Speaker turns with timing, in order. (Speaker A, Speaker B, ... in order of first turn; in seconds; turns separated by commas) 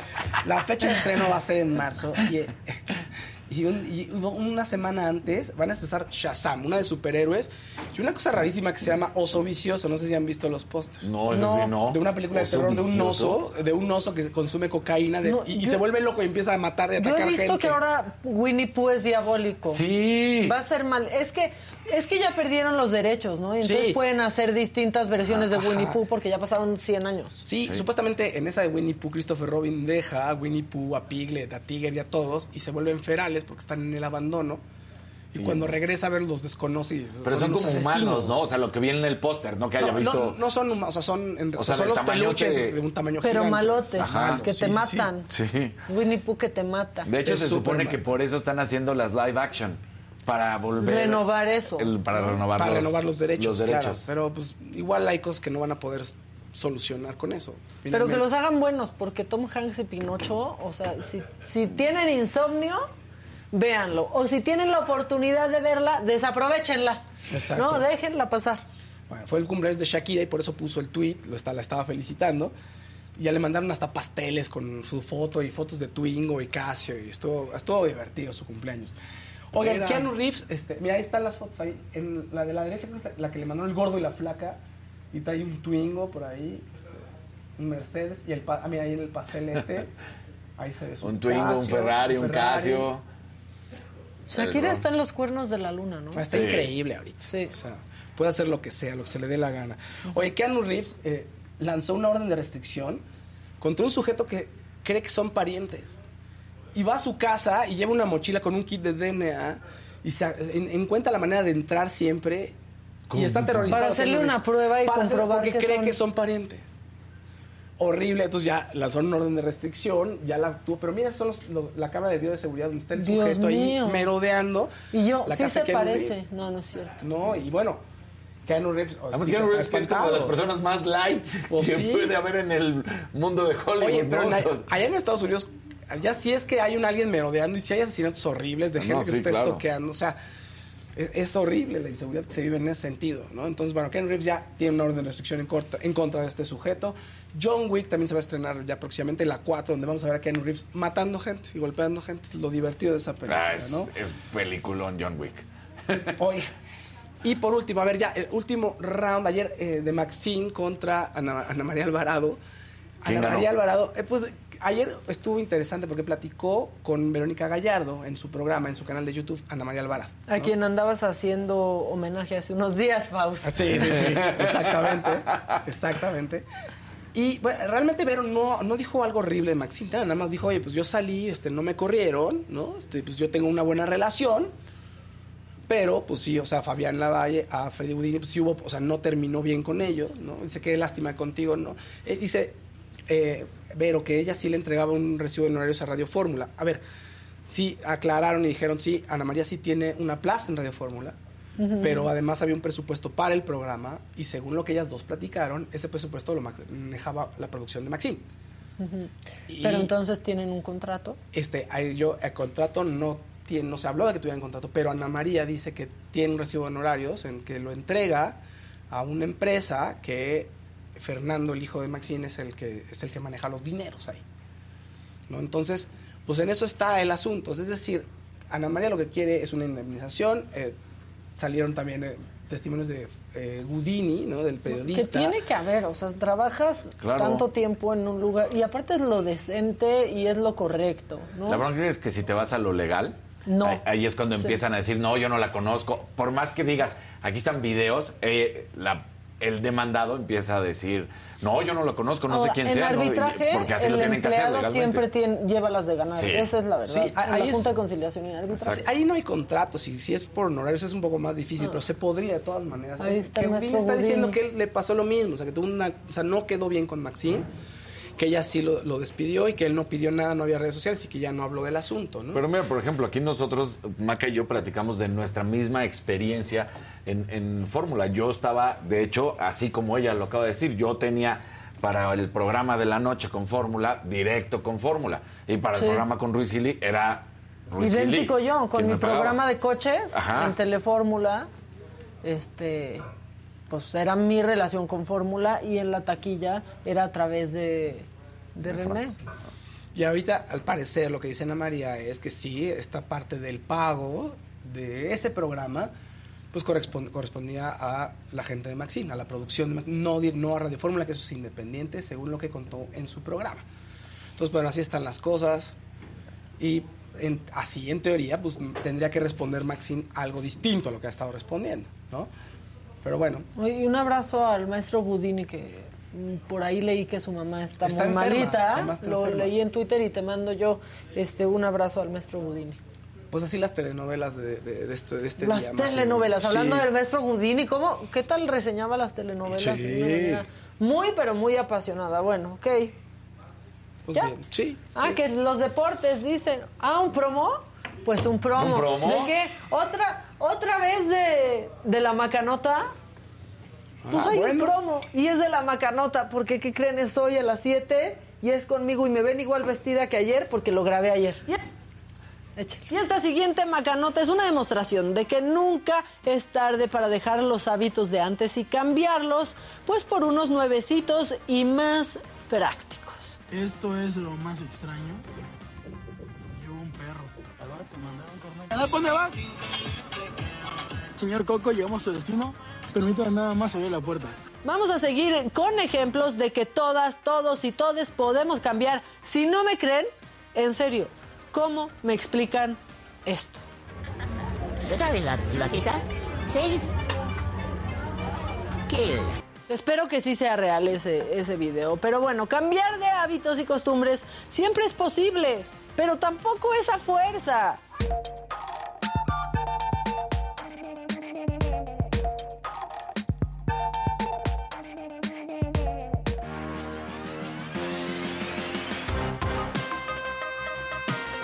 Speaker A: 0.4-17.8, Speaker B: 11.0-13.4, Speaker C: 15.2-15.8, Speaker C: 17.0-19.8, Speaker B: 19.7-20.6, Speaker C: 20.4-27.4, Speaker A: 23.6-24.0, Speaker A: 25.3-26.0, Speaker A: 27.4-34.6, Speaker A: 35.3-38.5, Speaker B: 35.3-35.7, Speaker B: 37.2-40.4, Speaker A: 39.8-45.0, Speaker B: 41.5-42.8, Speaker C: 43.2-45.3, Speaker B: 44.0-45.8, Speaker C: 45.9-47.1, Speaker B: 47.0-54.1, Speaker A: 47.2-48.0, Speaker C: 50.8-52.0, Speaker A: 52.3-58.3, Speaker C: 57.9-62.9, Speaker C: 63.5-68.6, Speaker A: 67.3-67.8, Speaker A: 69.1-72.5, Speaker A: 73.2-79.0, Speaker A: 79.5-84.6, Speaker B: 79.6-80.1, Speaker A: 85.1-89.9, Speaker A: 90.6-92.9, Speaker B: 91.0-93.0, Speaker C: 94.3-96.5, Speaker B: 94.3-94.8, Speaker A: 96.1-103.0, Speaker B: 96.3-96.7, Speaker C: 97.3-97.5, Speaker A: 103.6-106.0, Speaker A: 106.7-112.5, Speaker B: 113.1-113.8, Speaker A: 113.1-116.7, Speaker C: 113.7-116.0, Speaker A: 117.8-124.7, Speaker C: 123.0-124.1, Speaker C: 124.9-127.0, Speaker A: 125.2-126.2, Speaker A: 127.0-127.8, Speaker A: 128.4-130.4, Speaker B: 129.1-134.7, Speaker A: 131.5-132.1, Speaker A: 133.8-140.2, Speaker B: 138.8-139.6, Speaker A: 140.9-153.9, Speaker B: 153.3-156.2, Speaker A: 156.2-156.5, Speaker A: 157.2-162.4, Speaker A: 163.0-170.5, Speaker B: 163.1-163.5, Speaker C: 170.3-173.9, Speaker A: 173.4-176.4, Speaker B: 173.7-175.6, Speaker A: 177.1-184.5, Speaker A: 185.7-196.8, Speaker A: 197.5-201.2, Speaker C: 201.6-202.1, Speaker A: 201.8-208.2, Speaker C: 208.8-209.1, Speaker A: 209.5-209.9, Speaker C: 209.6-211.2, Speaker A: 211.3-218.4, Speaker A: 218.9-224.2, Speaker A: 225.3-230.8, Speaker A: 231.4-235.4, Speaker C: 234.7-241.6, Speaker B: 237.0-237.4, Speaker B: 241.4-255.1, Speaker C: 243.5-243.8, Speaker C: 252.3-258.8, Speaker B: 256.1-256.5, Speaker A: 256.9-257.7, Speaker A: 258.6-267.5, Speaker C: 263.0-264.4, Speaker A: 268.2-272.4, Speaker B: 272.3-289.4, Speaker C: 285.8-286.1, Speaker C: 287.8-291.5, Speaker B: 290.1-290.6, Speaker C: 292.2-293.0, Speaker C: 293.7-299.2, Speaker B: 298.6-299.0, Speaker A: 299.9-305.9, Speaker A: 306.5-313.6, Speaker A: 314.4-315.7, Speaker A: 316.6-322.3, Speaker A: 323.0-323.5, Speaker C: 323.6-332.8, Speaker A: 327.8-329.5, Speaker A: 333.3-336.9, Speaker C: 335.4-342.9, Speaker B: 339.6-340.4, Speaker A: 344.1-345.1, Speaker C: 344.9-352.9, Speaker B: 348.6-349.3, Speaker A: 354.0-354.8, Speaker C: 354.1-361.6, Speaker C: 362.6-373.4, Speaker D: 373.5-375.2, Speaker D: 376.6-379.4, Speaker D: 381.2-384.4, Speaker C: 384.6-393.6, Speaker E: 394.8-396.8, Speaker E: 398.9-399.3, Speaker C: 399.7-407.8